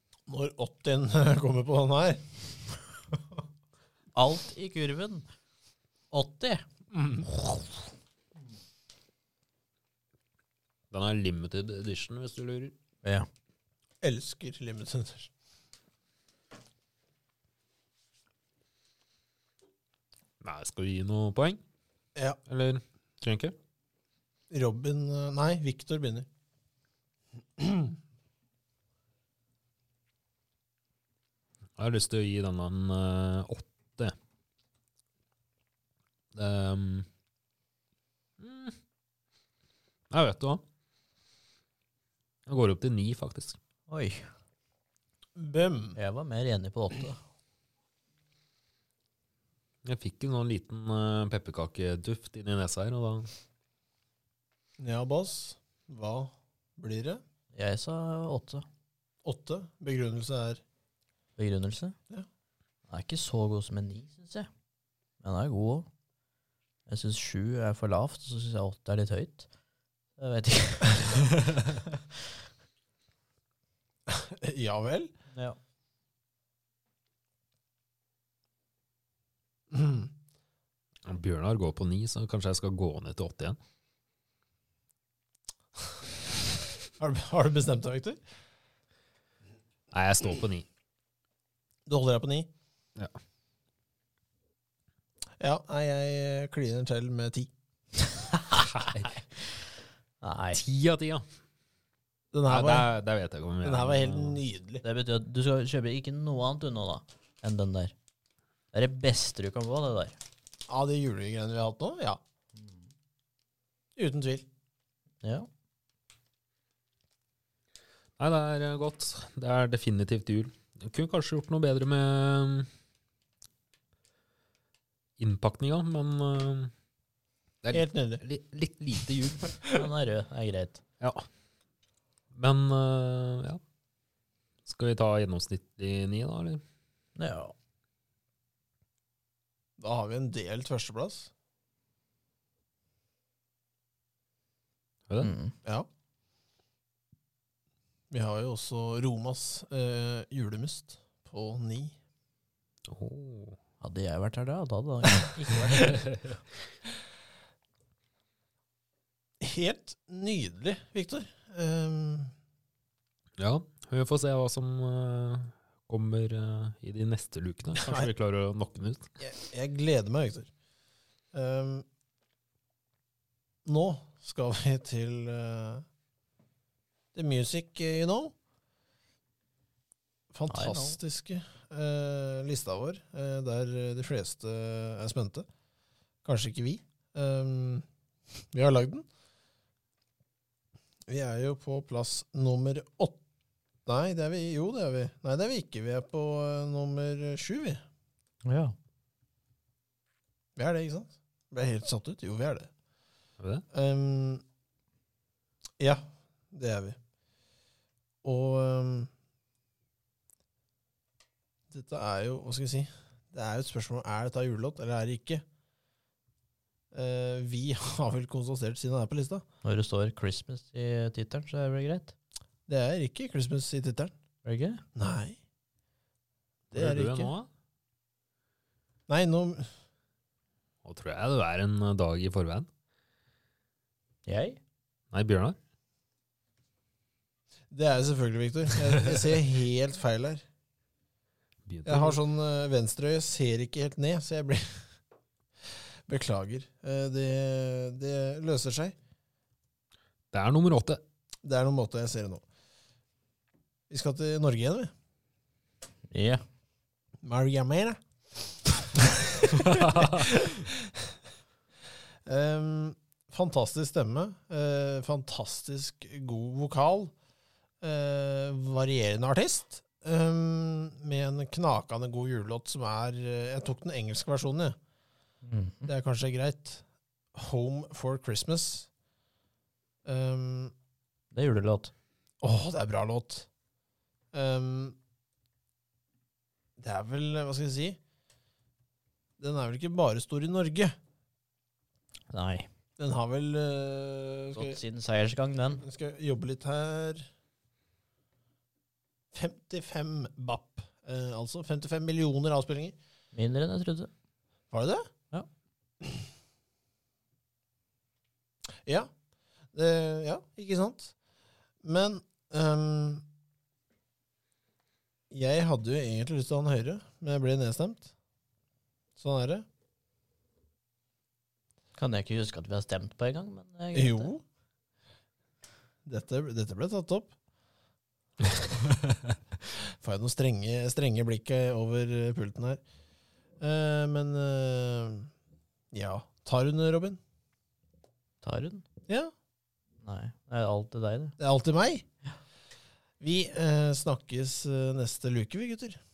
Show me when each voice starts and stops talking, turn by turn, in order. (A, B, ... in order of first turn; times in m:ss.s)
0:00.3-0:02.2 A
0:04.2-0:05.3 B
0:06.1-0:06.6 B
0:06.9-0:07.3 A
0:10.9-0:12.7 C
0:14.0-0:15.3 A
0:20.4-0:21.6 C
0:22.5-0:23.6 C
0:24.5-0:26.3 A
0:27.6-0:28.0 A
0:31.8-0:34.1 C
0:36.4-0:37.1 C
0:38.4-0:38.8 C
0:40.1-0:40.6 C
0:42.5-0:43.6 C
0:43.9-0:44.3 B
0:45.4-0:46.0 A
0:46.0-0:47.2 B
0:49.9-0:53.3 C
0:54.8-0:57.2 A
0:57.5-0:58.6 B
0:59.2-1:00.6 A
1:01.4-1:02.0 B
1:02.9-1:04.5 B
1:05.2-1:05.9 B
1:06.9-1:09.5 B
1:10.2-1:11.8 B
1:14.1-1:15.1 A
1:15.3-1:15.6 B
1:19.7-1:20.1 A
1:21.1-1:23.6 C
1:27.0-1:28.2 A
1:29.9-1:30.7 C
1:31.9-1:32.5 A
1:35.4-1:37.5 A
1:38.6-1:39.2 C
1:40.2-1:40.6 B
1:40.5-1:41.2 C
1:42.3-1:42.9 A
1:42.5-1:44.4 C
1:43.6-1:44.8 A
1:44.8-1:47.9 B
1:48.7-1:50.2 B
1:50.7-1:52.2 A
1:52.6-1:52.8 B
1:54.0-1:54.5 A
1:55.2-1:55.5 B
1:58.2-2:02.7 C
2:05.2-2:06.7 C
2:07.6-2:09.6 C
2:07.7-2:08.2 A
2:09.7-2:10.8 B
2:12.3-2:13.6 C
2:14.7-2:16.6 C
2:17.2-2:17.5 B
2:19.8-2:21.3 A
2:25.2-2:25.6 B
2:28.1-2:32.0 A
2:32.9-2:33.6 C
2:33.8-2:36.0 B
2:35.8-2:36.3 C
2:39.4-2:42.3 A
2:43.4-2:49.1 C
2:47.8-2:48.1 A
2:49.2-2:50.5 A
2:51.3-2:51.8 A
2:53.6-2:55.8 A
2:57.2-2:58.3 A
3:00.3-3:05.5 A
3:00.5-3:01.0 B
3:06.2-3:07.8 A
3:08.5-3:09.0 A
3:11.1-3:13.2 A
3:13.9-3:17.8 A
3:18.5-3:18.8 B
3:20.6-3:22.7 A
3:23.7-3:24.4 A
3:25.8-3:27.0 A
3:28.2-3:29.1 A
3:31.7-3:35.4 A
3:36.9-3:39.4 A
3:39.6-3:42.1 B
3:42.7-3:44.1 A
3:44.4-3:44.8 B
3:45.0-3:45.4 A
3:46.7-3:47.5 C
3:46.7-3:47.3 A
3:49.1-3:49.7 A
3:50.8-3:52.7 C
3:54.3-3:54.6 B
3:55.1-3:55.6 C
3:57.7-4:00.4 A
4:01.7-4:02.2 C
4:01.9-4:04.9 A
4:06.1-4:09.0 A
4:10.3-4:11.0 C
4:11.4-4:12.4 A
4:13.9-4:14.9 A
4:16.1-4:16.4 B
4:17.2-4:18.0 A
4:19.0-4:20.8 A
4:19.5-4:20.3 C
4:22.3-4:27.1 A
4:27.8-4:34.8 A
4:35.4-4:35.9 B
4:35.8-4:36.8 A
4:37.4-4:38.9 A
4:40.0-4:40.7 A
4:41.3-4:41.9 B
4:42.4-4:43.5 A
4:44.3-4:45.0 A
4:46.8-4:48.0 A
4:49.4-4:50.9 A
4:52.3-4:52.7 B
4:53.0-4:54.8 A
4:54.6-4:55.8 B
4:55.8-4:57.3 A
4:59.3-5:03.0 A
5:03.3-5:04.1 B
5:04.7-5:05.0 A
5:09.7-5:11.1 A
5:11.8-5:13.2 A
5:15.3-5:18.1 A
5:19.2-5:19.6 A
5:22.0-5:24.3 B
5:23.9-5:24.4 A
5:26.1-5:27.3 A
5:30.0-5:32.8 A
5:33.6-5:35.3 A
5:35.9-5:37.2 A
5:38.4-5:38.8 B
5:40.0-5:41.4 B
5:41.4-5:42.0 A
5:43.2-5:46.0 A